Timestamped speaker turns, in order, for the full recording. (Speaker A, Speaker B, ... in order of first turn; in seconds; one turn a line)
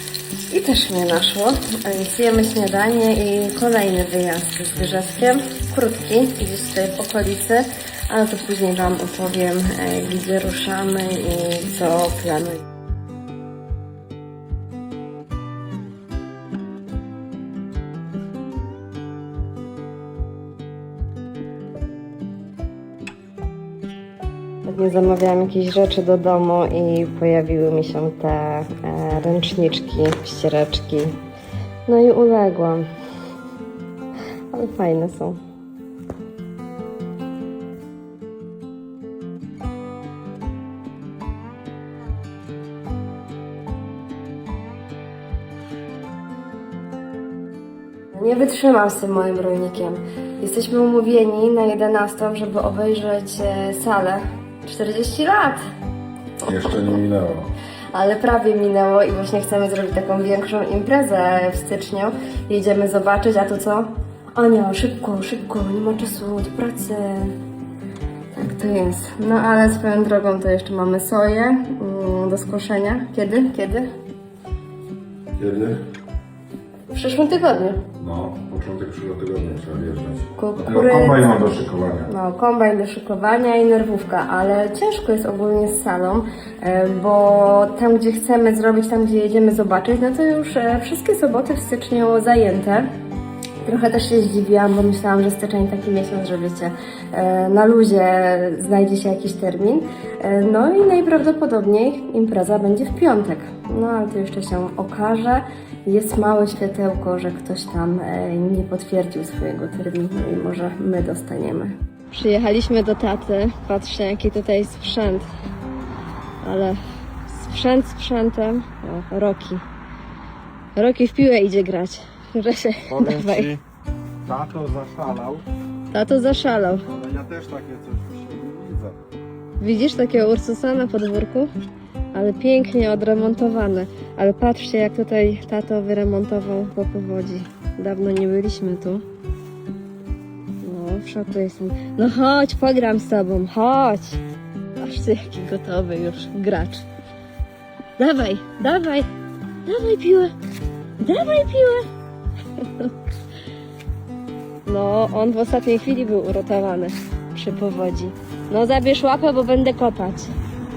Speaker A: 0.5-12.6
Speaker A: 24.6-31.1
Speaker A: 31.9-32.9
Speaker A: 34.5-35.4
Speaker A: 48.1-55.6
Speaker B: 56.4-57.5
Speaker A: 57.9-67.3
Speaker A: 68.3-73.9
Speaker B: 75.3-75.8
Speaker A: 76.9-77.8
Speaker B: 78.0-82.1
Speaker A: 80.3-92.9
Speaker A: 93.6-115.3
Speaker A: 116.4-119.6
Speaker A: 120.8-123.5
Speaker C: 123.0-123.4
Speaker B: 123.1-123.4
Speaker C: 124.2-125.4
Speaker A: 125.9-126.8
Speaker C: 126.9-128.9
Speaker A: 129.6-131.5
Speaker A: 132.1-139.0
Speaker A: 140.6-144.2
Speaker A: 144.8-146.8
Speaker A: 148.0-149.1
Speaker A: 149.6-150.3
Speaker A: 151.0-151.9
Speaker A: 152.6-152.9
Speaker A: 154.7-160.3